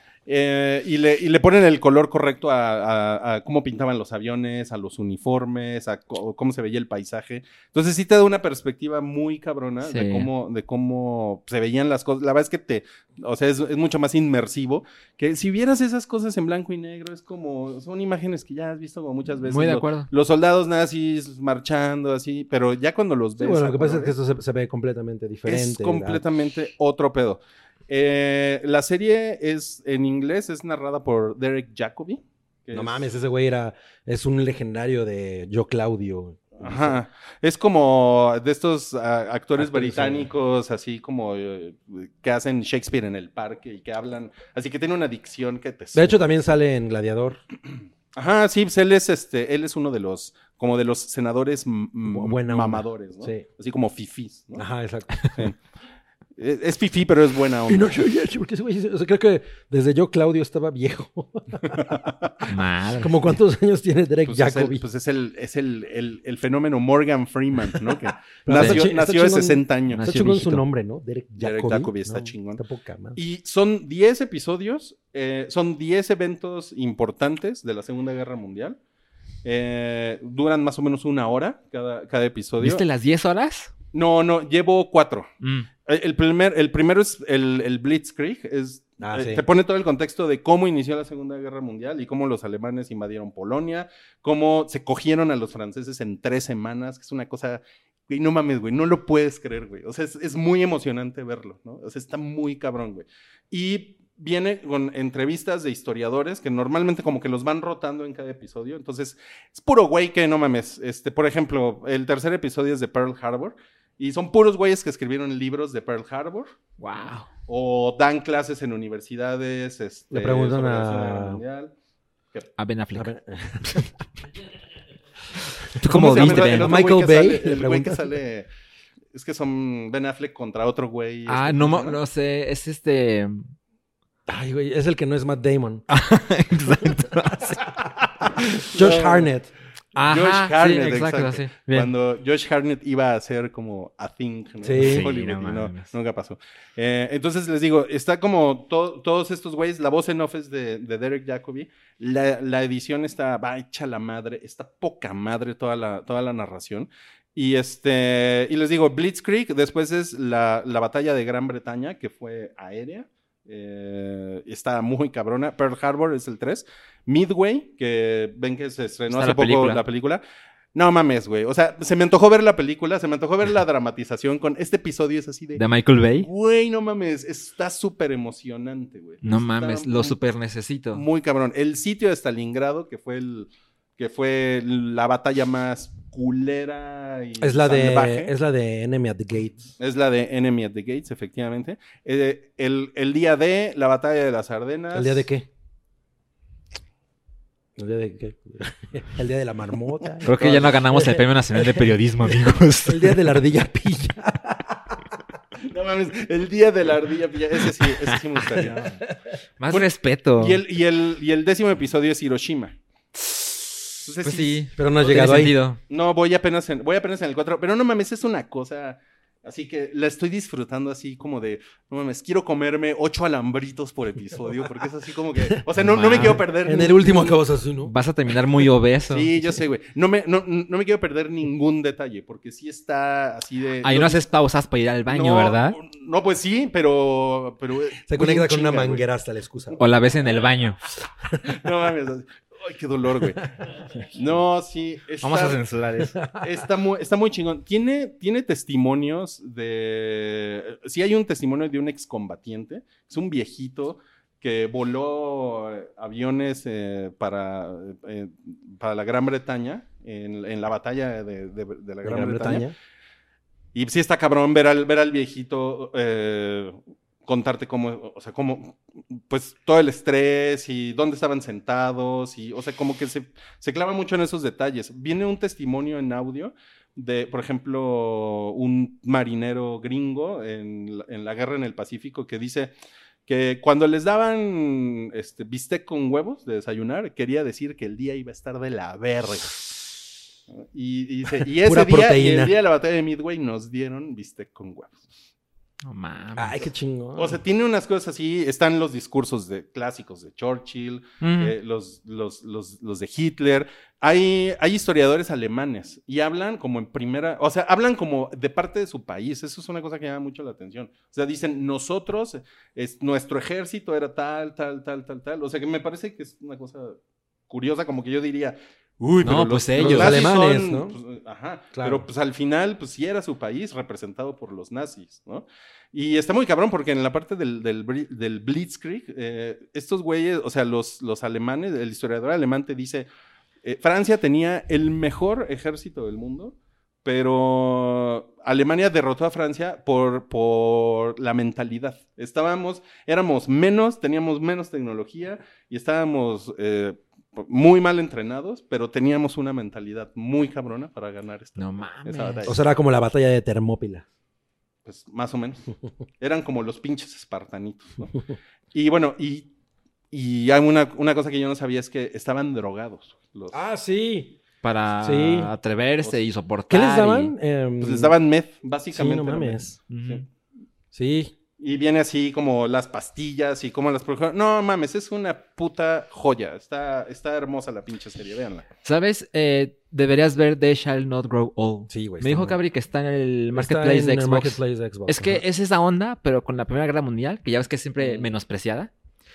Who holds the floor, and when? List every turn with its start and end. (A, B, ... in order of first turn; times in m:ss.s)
0:00.2-0:24.1 A
0:09.8-0:10.3 B
0:19.4-0:20.1 B
0:23.4-0:26.2 C
0:25.4-0:33.1 A
0:32.7-0:37.0 C
0:36.6-0:46.2 A
0:39.6-0:40.3 C
0:45.9-0:47.4 C
0:48.1-0:54.6 A
0:52.1-0:53.4 C
0:54.6-0:55.4 C
0:56.4-0:57.9 A
0:57.7-1:02.0 C
1:01.9-1:02.3 A
1:02.4-1:03.2 B
1:03.0-1:04.8 C
1:04.2-1:10.1 A
1:08.4-1:13.2 C
1:08.6-1:08.8 B
1:09.9-1:10.6 B
1:11.4-1:12.6 A
1:13.2-1:18.8 A
1:19.4-1:22.8 A
1:22.6-1:23.7 B
1:23.9-1:25.3 A
1:25.4-1:25.7 B
1:25.8-1:56.5 A
1:29.0-1:29.4 C
1:56.8-1:57.3 B
1:57.5-2:01.7 A
2:00.1-2:01.4 C
2:02.6-2:03.1 B
2:02.9-2:03.9 C
2:05.8-2:06.7 B
2:05.8-2:08.1 C
2:05.9-2:08.5 A
2:09.1-2:12.0 A
2:11.3-2:13.5 B
2:14.3-2:15.8 C
2:15.9-2:17.6 B
2:18.2-2:19.5 C
2:18.7-2:19.3 A
2:19.9-2:21.9 B
2:20.0-2:50.2 A
2:24.6-2:25.1 C
2:24.7-2:25.9 B
2:49.1-2:49.8 B
2:50.7-2:55.6 A
2:55.6-2:56.3 B
2:56.2-3:00.2 A
2:59.2-3:01.0 B
3:00.9-3:08.3 A
3:07.4-3:09.7 C
3:09.8-3:15.2 A
3:14.9-3:15.5 C
3:17.8-3:21.9 C
3:20.2-3:23.2 B
3:22.8-3:25.0 C
3:25.6-3:29.0 A
3:28.1-3:28.8 B
3:29.6-3:30.6 B
3:29.7-3:32.8 A
3:33.2-3:33.6 B
3:34.0-3:34.6 A
3:34.2-3:35.8 B
3:34.8-3:35.6 C
3:35.9-3:47.3 A
3:45.8-3:46.4 B
3:46.1-3:47.9 C
3:47.8-3:49.3 B
3:49.1-3:54.2 A
3:53.8-3:55.8 B
3:55.1-3:59.0 A
3:58.0-3:59.8 C
3:59.8-4:00.8 B
4:01.4-4:05.6 A
4:05.2-4:06.2 B
4:06.3-4:22.6 A
4:22.0-4:22.7 C
4:23.7-4:42.7 A
4:43.3-4:49.7 A
4:50.5-4:55.0 A
4:51.6-4:52.5 C
4:55.8-4:56.6 B
4:56.4-4:57.4 C
4:57.2-5:17.0 A
5:01.2-5:01.5 B
5:17.5-5:33.1 A
5:19.2-5:20.2 B
5:19.2-5:21.0 C
5:21.7-5:22.0 C
5:33.6-5:52.6 A
5:51.6-5:52.5 B
5:52.4-5:54.0 C
5:54.8-5:55.7 A
5:56.2-5:58.1 A
5:58.7-5:59.5 A
6:00.1-6:03.6 A
6:03.5-6:04.4 C
6:04.6-6:07.3 B
6:05.0-6:05.5 C
6:06.7-6:08.1 C
6:07.8-6:10.2 A
6:08.9-6:09.8 C
6:09.9-6:10.2 B
6:10.9-6:11.3 C
6:11.6-6:18.6 A
6:18.8-6:28.9 B
6:21.9-6:22.6 C
6:23.5-6:25.4 C
6:28.0-6:28.3 C